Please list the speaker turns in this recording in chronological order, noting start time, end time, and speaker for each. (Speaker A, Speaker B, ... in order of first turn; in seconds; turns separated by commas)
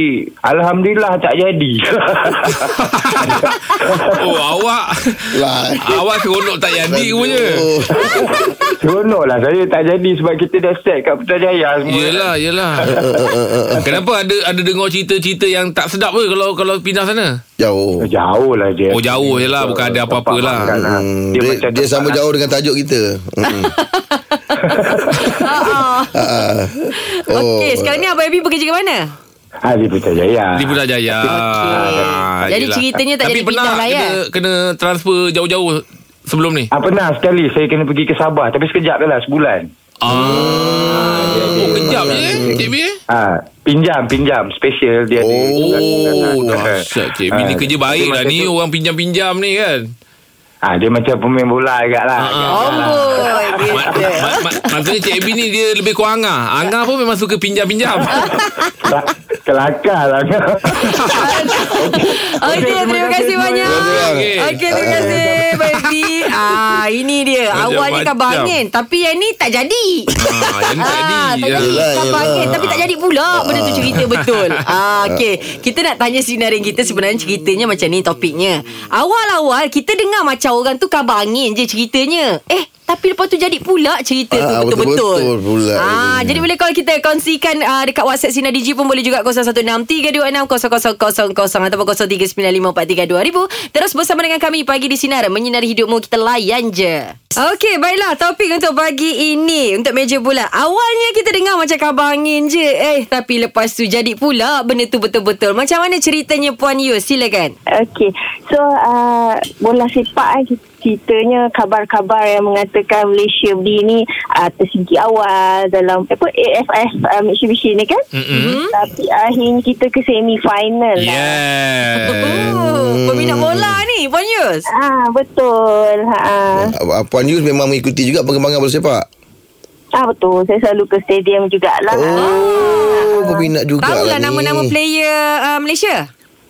Speaker A: 0.5-4.2, Speaker B: 2.5-3.5, Speaker B: 4.1-7.7, Speaker C: 5.3-6.0, Speaker C: 6.8-8.5, Speaker A: 7.9-13.2, Speaker B: 11.8-12.9, Speaker C: 12.8-14.0, Speaker B: 13.8-17.4, Speaker C: 17.6-18.1, Speaker A: 18.0-22.2, Speaker B: 18.9-20.7, Speaker C: 20.6-23.7, Speaker D: 23.5-26.4, Speaker A: 24.7-25.4, Speaker C: 26.1-28.0, Speaker D: 27.0-29.1, Speaker A: 29.6-30.8, Speaker B: 30.6-36.7, Speaker D: 31.3-34.2, Speaker A: 31.7-32.1, Speaker A: 36.7-39.7, Speaker B: 40.0-43.0, Speaker C: 40.1-42.7, Speaker A: 40.2-48.5, Speaker D: 41.2-41.5, Speaker C: 45.2-46.7, Speaker B: 45.5-49.9, Speaker A: 50.6-54.0, Speaker B: 52.2-58.2, Speaker D: 52.5-54.6, Speaker D: 58.1-58.9, Speaker A: 58.8-63.8, Speaker B: 60.8-61.3, Speaker D: 61.1-70.2, Speaker C: 63.6-65.2, Speaker B: 63.7-64.8, Speaker A: 64.9-65.5, Speaker B: 65.5-66.3, Speaker B: 67.5-68.6, Speaker B: 70.2-72.8, Speaker D: 70.8-107.5, Speaker C: 71.6-72.6, Speaker C: 73.3-74.1, Speaker B: 74.0-74.3, Speaker C: 84.3-86.5, Speaker E: 107.7-118.0, Speaker B: 118.1-118.6, Speaker D: 118.3-118.7, Speaker E: 118.7-121.4, Speaker B: 121.0-122.5, Speaker D: 122.0-124.7, Speaker C: 122.1-123.8, Speaker E: 124.7-126.7, Speaker C: 126.5-129.1, Speaker E: 130.0-133.5, Speaker C: 131.9-134.7, Speaker D: 132.2-133.1, Speaker D: 133.8-136.1